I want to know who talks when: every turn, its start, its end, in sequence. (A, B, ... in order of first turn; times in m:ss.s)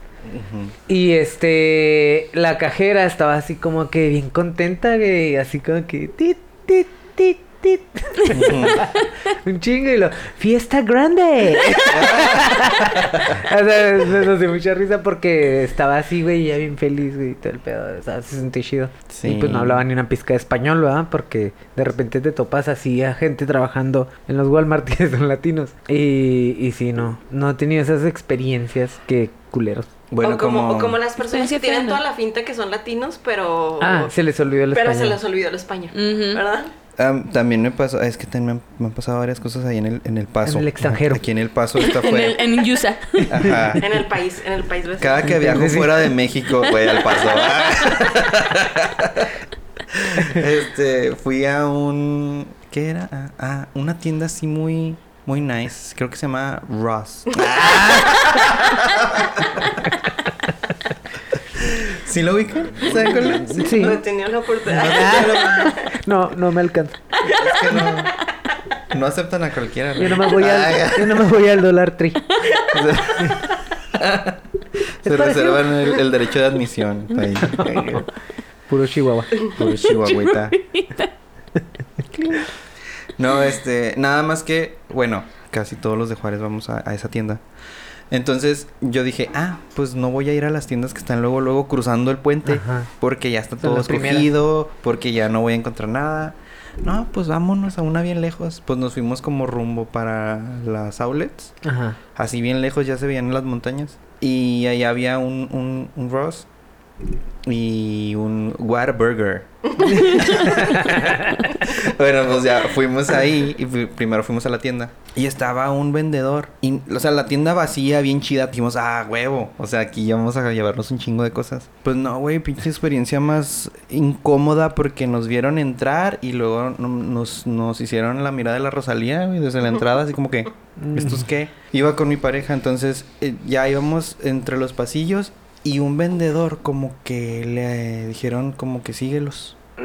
0:00.2-0:00.7 A
0:00.9-0:29.9 B
0:08.3-0:08.9 A
0:11.9-0:13.4 A
0:19.1-0:19.8 A
0:30.1-0:31.0 A
0:30.2-0:34.1 C
0:31.2-0:32.0 D
0:33.8-0:35.2 B
0:34.7-0:36.7 C
0:35.9-0:36.4 D
0:37.0-0:42.4 A
0:40.4-0:41.2 B
0:41.8-0:43.4 D
0:43.2-0:43.8 B
0:43.3-0:43.9 A
0:43.8-0:45.8 C
0:45.0-0:59.8 A
0:45.2-0:46.1 B
0:46.8-0:47.9 D
1:01.5-1:03.9 A
1:02.9-1:05.9 C
1:03.2-1:04.0 B
1:04.7-1:07.0 B
1:04.8-1:05.8 A
1:07.2-1:08.1 C
1:07.2-1:08.1 A
1:08.9-1:11.4 A
1:10.0-1:12.2 B
1:12.6-1:13.3 C
1:12.7-1:14.5 A
1:15.0-1:18.1 A
1:15.0-1:15.7 B
1:17.4-1:18.0 B
1:18.7-1:19.4 B
1:19.5-1:20.6 A
1:19.7-1:21.1 D
1:23.1-1:27.4 A
1:28.1-1:41.5 A
1:32.4-1:32.9 B
1:33.6-1:34.3 B
1:41.6-1:42.0 B
1:42.1-1:46.5 A
1:47.4-2:19.6 A
1:49.9-1:50.5 C
1:50.0-1:51.3 B
2:10.8-2:11.3 B